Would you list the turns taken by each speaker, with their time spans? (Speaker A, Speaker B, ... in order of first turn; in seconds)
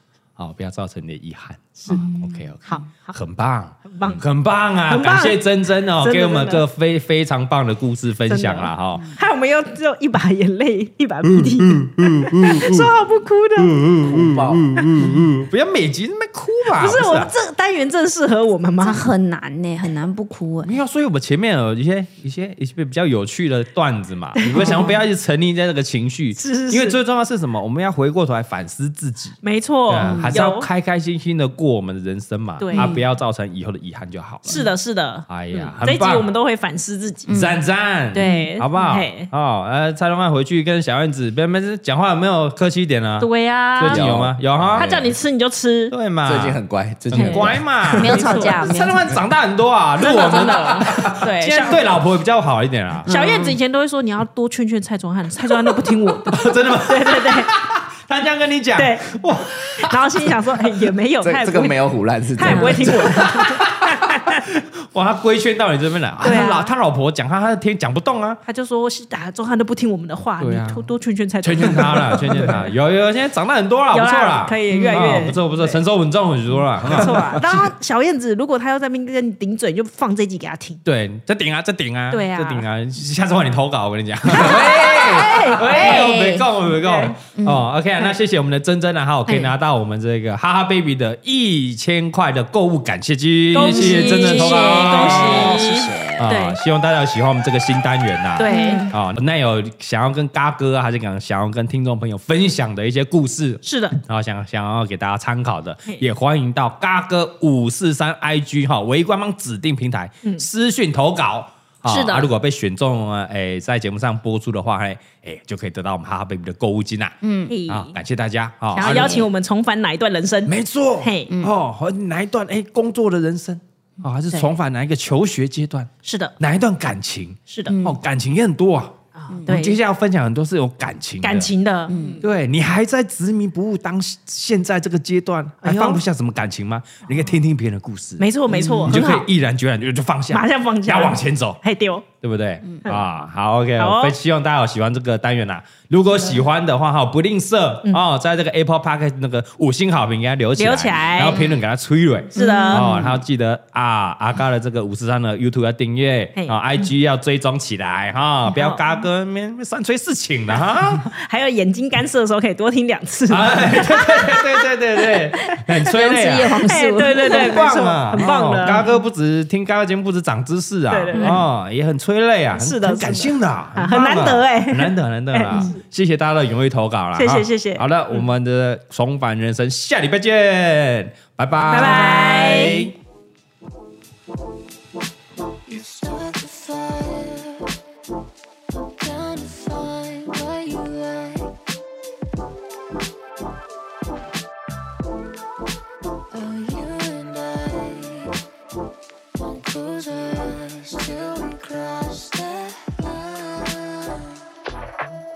Speaker A: 0.4-9.1, 11.2-12.9, 13.6-17.3, 20.6-34.6, 35.3-36.3, 37.3-44.9, 45.9-46.6, 47.1-53.1, 56.2-60.4, 63.2-68.4, 70.4-70.8, 71.4-77.7, 80.8-119.3, 120.4-131.5, 132.2-138.3, 138.8-141.6, 142.2-161.1, 163.3-166.7, 167.2-182.9
Speaker B: 1.8-2.0, 2.6-3.2, 3.8-4.2, 4.9-6.7, 8.3-13.8, 16.7-19.1, 24.4-25.0, 26.4-27.0, 29.4-30.7, 32.6-32.9, 34.5-37.3, 38.1-39.3, 43.2-44.1, 44.7-46.0, 47.1-48.6, 50.0-51.8, 53.0-57.5, 58.8-59.2, 59.7-61.8, 62.3-64.4, 66.2-66.7, 68.4-72.7, 73.9-75.8, 76.9-80.8, 82.1-82.7, 84.3-87.2, 89.3-89.5, 93.5-96.6, 98.4-98.8, 103.6-104.0, 111.8-112.3, 117.5-118.0, 118.7-121.3, 126.0-126.3, 127.5-127.8, 129.1-129.8, 131.2-132.1, 135.6-136.0, 138.2-139.2, 140.3-142.1, 143.8-144.2, 150.6-151.4, 152.3-153.0, 158.5-158.8, 161.1-165.9, 166.6-168.9, 170.9-171.4, 172.6-175.8, 177.2-178.2, 181.7-182.9
Speaker C: 1.9-2.4, 18.8-20.7, 24.5-24.9, 30.0-30.3, 32.7-33.0, 37.3-37.6, 38.1-38.5, 47.9-49.1, 50.0-51.0, 53.0-53.6, 62.4-62.9, 74.7-75.3, 85.6-86.3, 87.3-87.7, 93.5-96.0, 98.5-98.9, 117.2-117.5, 118.8-119.3, 127.7-128.0, 129.3-129.6, 131.9-132.2, 138.5-139.0, 152.3-153.1, 165.8-168.9, 171.1-171.4
Speaker D: 14.0-14.7, 43.9-45.1, 46.2-47.6, 61.2-63.6
Speaker E: 185.7-187.7, 188.7-191.5, 196.3-198.4, 199.3-204.3